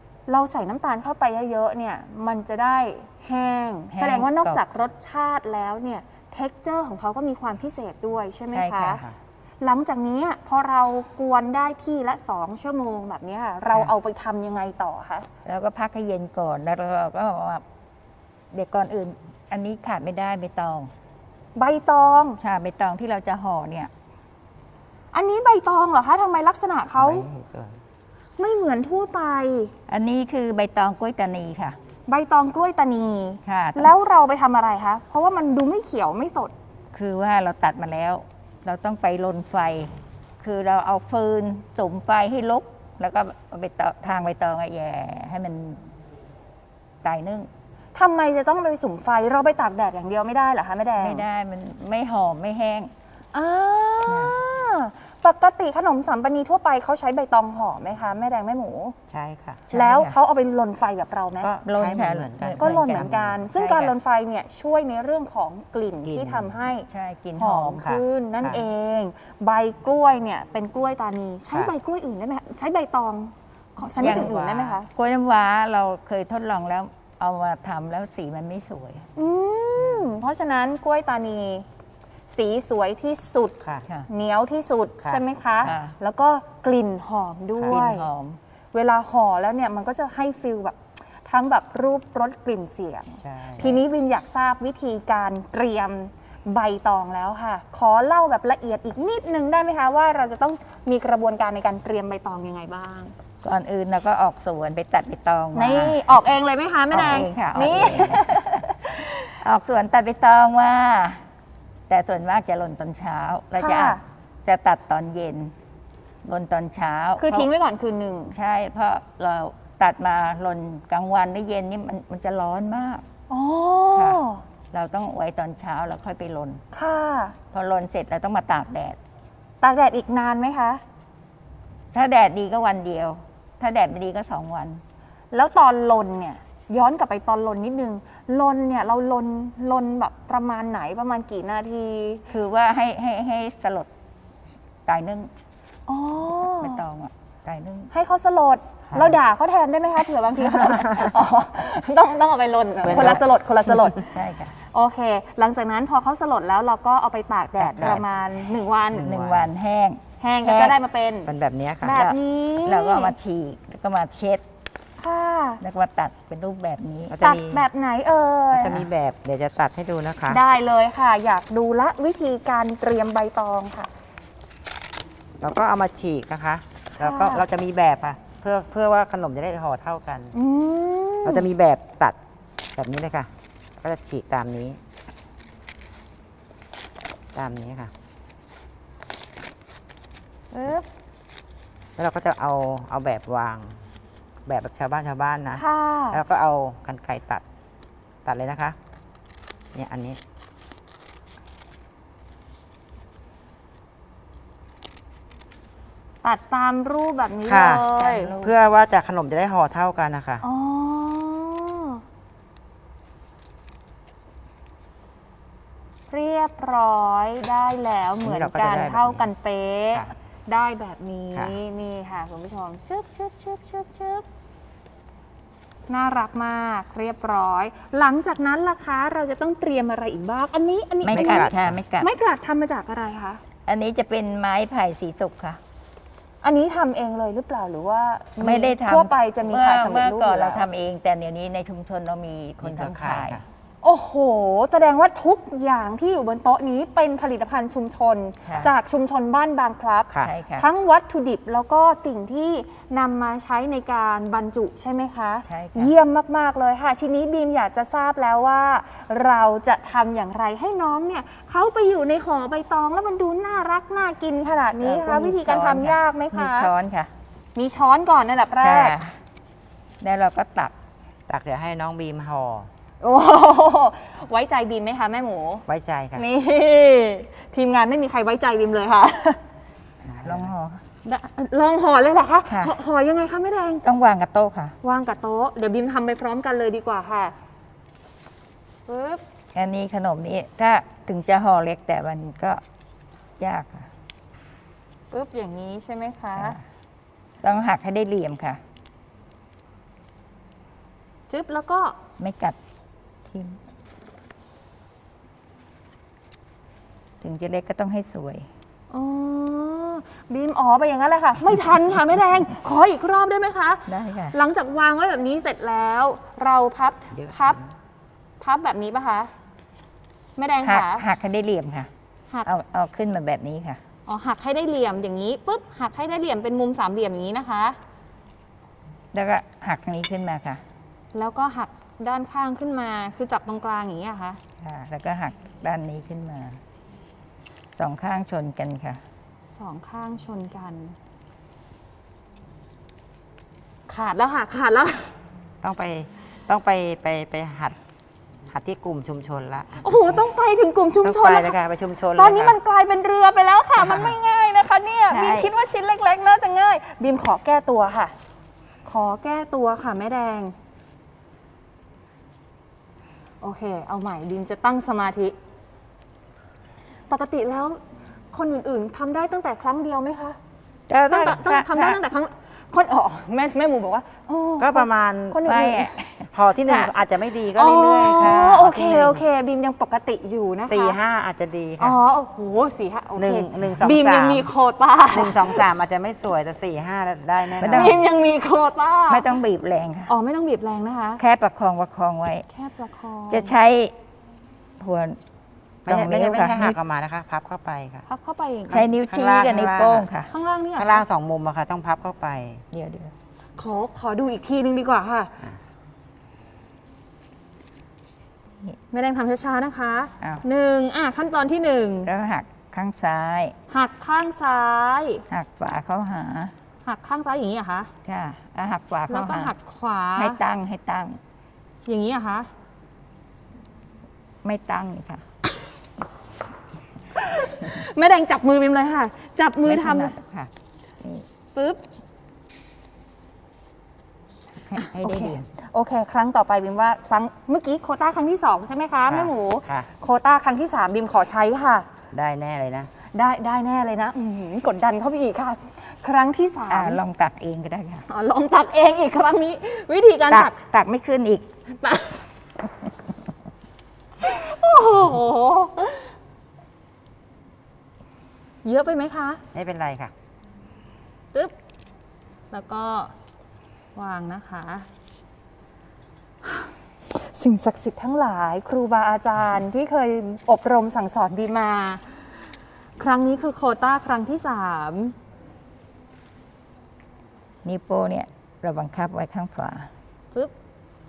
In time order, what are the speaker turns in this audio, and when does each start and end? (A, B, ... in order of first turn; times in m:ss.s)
0:00.3-0:09.0 A
0:03.9-0:04.6 B
0:08.5-0:09.1 B
0:09.6-0:15.3 A
0:15.4-0:17.6 B
0:18.5-0:20.9 B
0:21.5-0:22.4 A
0:22.4-0:23.9 B
0:25.1-0:27.2 A
0:26.9-0:27.8 C
0:28.4-0:29.7 A
0:29.9-0:31.8 B
0:32.1-0:36.5 A
0:33.4-0:33.9 B
0:36.9-0:45.8 B
0:47.0-0:47.5 B
0:47.9-0:51.2 A
0:51.0-0:52.9 B
0:53.3-0:59.0 A
0:54.1-0:54.4 B
0:59.1-0:59.7 C
0:59.7-1:00.1 B
0:59.7-1:01.5 A
1:01.4-1:03.4 C
1:01.6-1:03.9 B
1:02.6-1:14.9 A
1:06.0-1:06.5 C
1:06.9-1:07.8 B
1:07.8-1:08.6 C
1:14.0-1:14.7 C
1:14.0-1:19.1 B
1:19.2-1:21.6 A
1:22.3-1:28.0 A
1:23.6-1:23.8 C
1:25.0-1:25.8 C
1:25.6-1:25.9 B
1:27.7-1:28.4 B
1:28.7-1:43.1 A
1:33.2-1:33.8 C
1:43.4-1:46.1 B
1:45.5-1:49.2 A
1:46.9-1:48.3 B
1:49.4-1:51.2 B
1:51.9-1:55.5 B
1:53.6-1:54.0 A
1:56.2-1:57.5 B
1:57.2-1:58.3 A
1:58.3-2:03.0 B
2:03.3-2:04.4 A
2:04.0-2:04.2 B
2:04.7-2:06.6 B
2:06.7-2:07.3 A
2:07.5-2:09.0 B
2:09.6-2:10.8 A
2:11.9-2:14.8 B
2:15.3-2:22.2 A
2:22.3-2:23.9 B
2:24.8-2:25.3 B
2:25.9-2:26.8 A
2:26.6-2:27.9 B
2:27.9-2:34.0 A
2:32.8-2:33.2 C
2:34.0-2:34.5 B
2:34.6-2:39.1 A
2:37.6-2:38.0 C
2:38.9-2:39.5 C
2:39.0-2:40.8 B
2:40.2-2:41.3 A
2:41.3-2:42.0 C
2:41.8-2:43.2 A
2:41.9-2:44.4 B
2:45.0-2:45.6 A
2:45.6-2:47.2 B
2:47.1-2:47.6 C
2:47.2-2:48.8 A
2:48.5-2:50.4 C
2:50.3-2:53.9 A
2:55.4-3:00.3 C
2:56.9-2:57.4 A
3:00.3-3:01.5 A
3:01.2-3:02.2 C
3:02.7-3:04.8 C
3:07.3-3:07.9 C
3:10.5-3:10.8 A
3:12.0-3:13.8 C
3:14.4-3:17.4 C
3:15.5-3:16.2 A
3:18.2-3:18.8 C
3:19.7-3:20.2 C
3:26.2-3:28.3 A
3:27.5-3:30.4 C
3:28.0-3:28.5 B
3:30.4-3:32.0 A
3:36.1-3:44.2 A
3:38.2-3:39.3 C
3:45.9-3:53.4 A
3:51.0-3:52.1 B
3:51.1-3:51.8 C
3:53.7-3:55.6 B
3:56.4-4:00.6 A
3:58.4-4:03.4 B
4:02.6-4:03.4 C
4:03.8-4:26.7 A
4:08.4-4:08.7 B
4:10.2-4:10.6 B
4:15.5-4:15.9 B
4:24.8-4:27.1 B
4:27.6-4:29.0 A
4:28.6-4:29.2 B
4:30.0-4:30.7 B
4:31.3-4:32.7 C
4:33.0-4:35.6 A
4:35.7-4:36.2 C
4:36.1-4:39.4 A
4:40.0-4:40.5 C
4:40.2-4:40.8 B
4:41.0-4:43.8 A
4:42.5-4:42.7 B
4:43.8-4:44.8 B
4:44.8-4:47.3 A
4:48.9-4:49.2 A
4:49.5-4:52.6 B
4:53.4-4:53.9 B
4:55.1-4:56.6 A
4:56.3-4:56.6 B
4:57.4-4:58.6 B
5:01.3-5:02.0 A
5:02.2-5:02.6 B
5:03.3-5:03.6 B
5:07.2-5:08.5 B
5:08.9-5:17.6 A
5:13.9-5:14.3 B
5:17.1-5:17.7 C
5:18.4-5:19.3 A
5:20.4-5:21.0 A
5:20.6-5:21.9 B
5:22.4-5:23.8 B
5:24.1-5:27.8 A
5:29.1-5:30.6 B
5:31.1-5:34.4 A
5:34.6-5:36.6 B
5:37.8-5:39.0 B
5:39.5-5:41.0 A
5:43.9-5:45.1 A
5:45.6-5:47.8 C
5:48.5-5:50.0 C
5:49.8-5:51.6 A
5:51.0-5:52.6 C
5:52.1-5:58.1 A
5:55.1-5:55.5 B
5:58.8-6:00.5 A
6:03.4-6:05.4 A
6:07.1-6:07.8 A
6:08.3-6:10.4 A
6:10.9-6:12.0 B
6:11.1-6:15.9 A
6:14.6-6:15.4 C
6:15.4-6:16.9 B
6:16.3-6:19.2 C
6:17.6-6:21.0 A
6:20.7-6:22.0 C
6:21.8-6:25.7 A
6:23.2-6:24.5 C
6:25.1-6:28.0 C
6:27.6-6:28.0 B
6:27.6-6:29.3 A
6:29.1-6:30.1 B
6:30.1-6:31.2 A
6:31.2-6:32.4 B
6:32.5-6:33.5 A
6:33.3-6:33.9 B
6:34.8-6:35.2 B
6:35.8-6:36.8 B
6:35.9-6:38.0 C
6:38.1-6:38.9 A
6:38.7-6:40.1 C
6:38.7-6:40.3 B
6:40.3-6:41.0 A
6:40.8-6:42.6 C
6:42.7-6:43.1 B
6:43.6-6:45.3 A
6:48.9-6:52.1 A
6:52.1-6:53.5 B
6:53.7-6:55.2 A
6:55.3-6:56.5 B
6:56.8-6:57.9 A
6:58.0-6:59.5 B
6:59.1-7:00.4 A
7:00.2-7:01.2 B
7:01.8-7:02.5 A
7:04.4-7:05.2 B
7:07.2-7:10.1 A
7:09.6-7:11.2 B
7:11.5-7:11.8 A
7:14.7-7:15.5 B
7:14.7-7:21.9 A
7:19.1-7:19.9 C
7:22.1-7:22.9 C
7:23.1-7:27.0 A
7:26.7-7:28.0 B
7:28.1-7:30.6 A
7:30.3-7:31.5 B
7:31.8-7:32.2 A
7:34.2-7:36.1 A
7:38.6-7:39.4 A
7:39.5-7:40.1 C
7:42.5-7:43.1 A
7:43.9-7:44.9 A
7:46.4-7:52.2 A
7:53.0-7:55.2 A
7:57.6-7:59.9 B